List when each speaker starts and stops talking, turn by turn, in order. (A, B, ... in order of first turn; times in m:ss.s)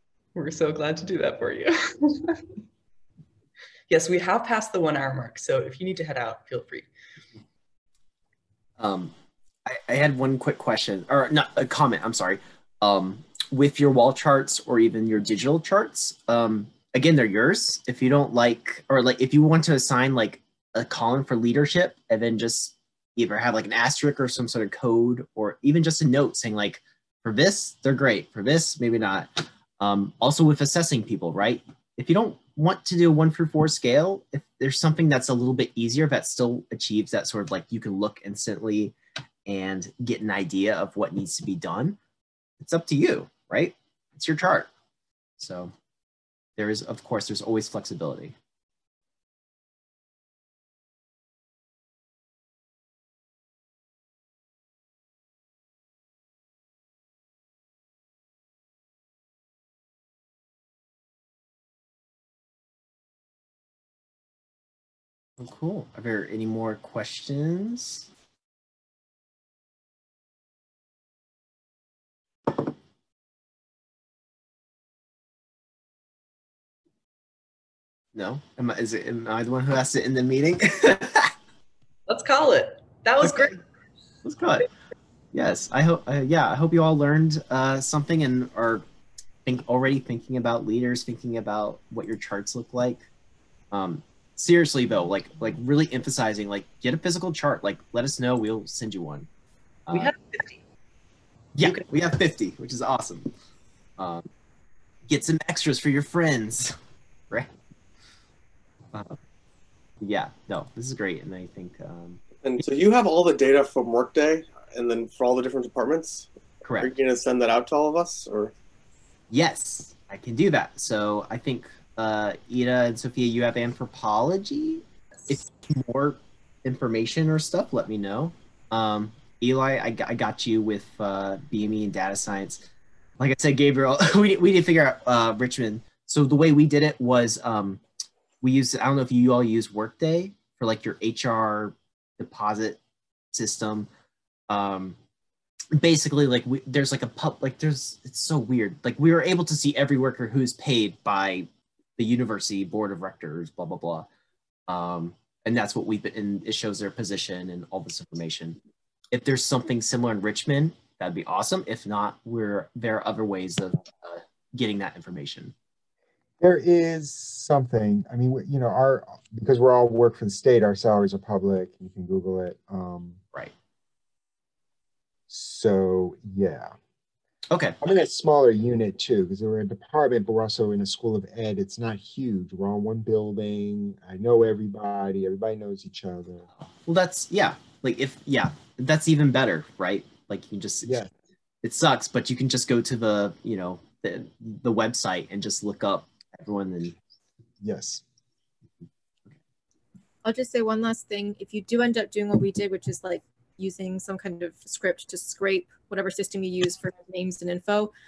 0:00.4-0:02.4 A
0:03.9-0:06.9 A
0:08.8-0:09.1 B
0:09.7-0:39.0 B
0:39.4-0:42.0 B
0:42.6-0:44.7 B
0:45.4-0:45.7 B
0:46.6-0:48.4 B
1:05.4-1:08.1 B
1:18.1-1:21.3 B
1:22.1-1:23.6 A
1:23.2-1:23.6 B
1:24.2-1:24.7 B
1:25.3-1:28.9 B
1:29.4-1:33.1 B
1:33.7-1:39.3 B
1:39.9-1:40.1 B
1:39.9-1:40.6 A
1:41.6-1:43.3 B
1:41.6-1:41.9 A
1:44.0-1:44.3 B
1:45.1-1:46.8 B
1:48.9-1:49.2 B
1:50.0-1:52.2 B
1:52.4-1:56.3 C
1:56.6-1:56.9 B
1:56.8-1:58.5 C
1:59.3-2:12.6 B
2:13.2-2:17.8 B
2:18.4-2:22.8 B
2:23.3-2:23.9 B
2:24.5-2:25.0 B
2:25.8-2:34.1 B
2:34.7-2:38.6 B
2:39.1-2:45.5 B
2:46.4-2:53.2 D
2:55.3-2:56.8 D
2:57.5-2:57.8 B
2:57.8-3:06.5 D
3:06.6-3:11.0 B
3:10.8-3:11.1 D
3:11.6-3:17.0 B
3:17.6-3:18.0 D
3:20.2-3:27.9 E